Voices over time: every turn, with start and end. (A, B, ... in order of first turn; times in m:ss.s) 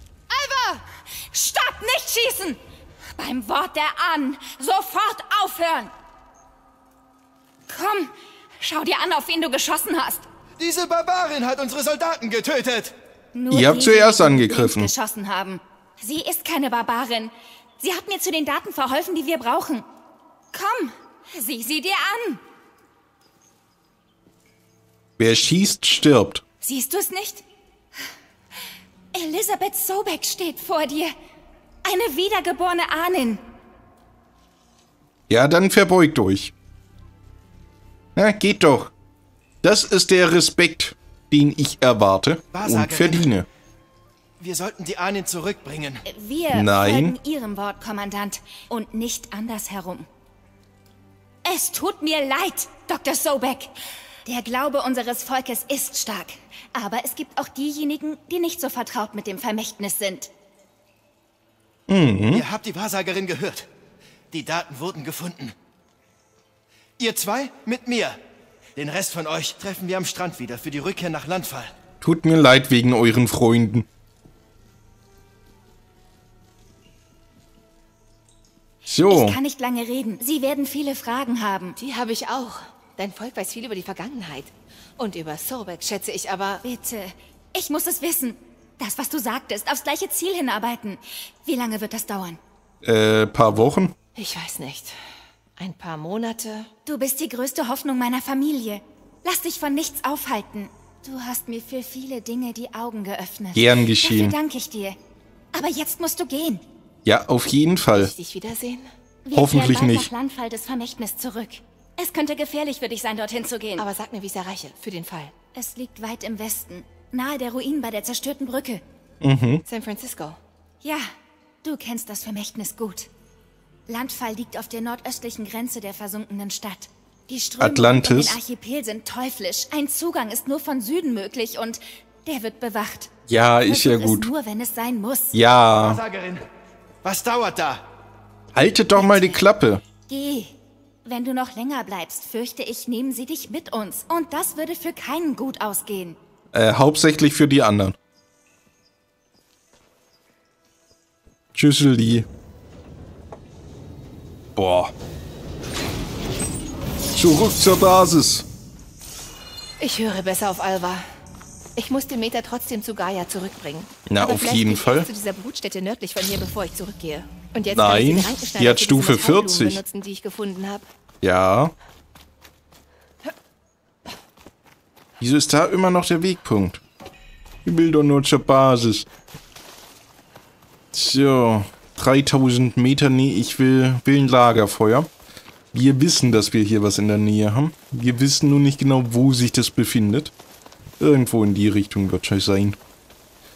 0:00.3-0:00.8 A
0:01.3-0:02.6 B
0:03.2-0:05.9 B
0:07.7-0:10.2 B
0:10.6-0:12.9 C
0:13.3-0:19.8 B
0:13.5-0:14.9 D
0:20.5-0:22.4 B
0:25.2-0:26.4 D
0:26.6-0:27.4 B
0:29.1-0:31.1 B
0:31.8-0:33.4 B
0:35.3-0:36.5 D
0:38.2-0:38.9 D
0:39.6-0:43.5 D
0:42.5-0:43.3 C
0:44.4-0:46.0 C
0:46.0-0:50.1 B
0:46.5-0:47.2 D
0:51.4-0:53.7 B
0:54.2-1:00.3 B
1:01.9-1:02.4 D
1:02.3-1:03.7 C
1:04.3-1:05.5 C
1:07.0-1:08.2 C
1:08.8-1:11.7 C
1:12.0-1:13.8 D
1:18.9-1:19.4 D
1:19.1-1:21.8 B
1:21.8-1:26.6 A
1:26.6-1:32.4 B
1:32.8-1:33.9 D
1:34.2-1:35.0 A
1:35.6-1:36.7 A
1:36.8-1:45.0 B
1:43.5-1:44.4 D
1:45.5-1:46.6 B
1:47.0-1:48.1 D
1:47.9-1:48.9 A
1:49.2-1:53.8 B
1:49.3-1:50.1 D
1:53.8-1:55.3 A
1:55.5-1:58.8 B
1:59.2-1:59.6 D
1:59.7-2:00.4 A
2:00.8-2:01.1 B
2:01.6-2:03.1 B
2:03.9-2:13.1 B
2:07.6-2:08.4 D
2:13.3-2:14.3 D
2:13.7-2:15.4 B
2:15.3-2:16.0 D
2:15.8-2:16.4 C
2:17.0-2:17.8 C
2:18.5-2:19.8 D
2:18.9-2:19.4 B
2:20.1-2:20.5 B
2:21.0-2:26.2 B
2:26.5-2:28.0 D
2:31.5-2:32.2 D
2:34.6-2:34.9 D
2:37.1-2:38.4 D
2:39.8-2:41.0 A
2:41.8-2:50.9 A
2:44.1-2:45.1 D
2:47.7-2:49.8 D
2:51.2-2:51.7 D
2:55.2-2:56.8 D
2:57.6-2:59.1 D
3:00.9-3:05.1 D
3:05.7-3:10.3 D
3:11.0-3:12.8 D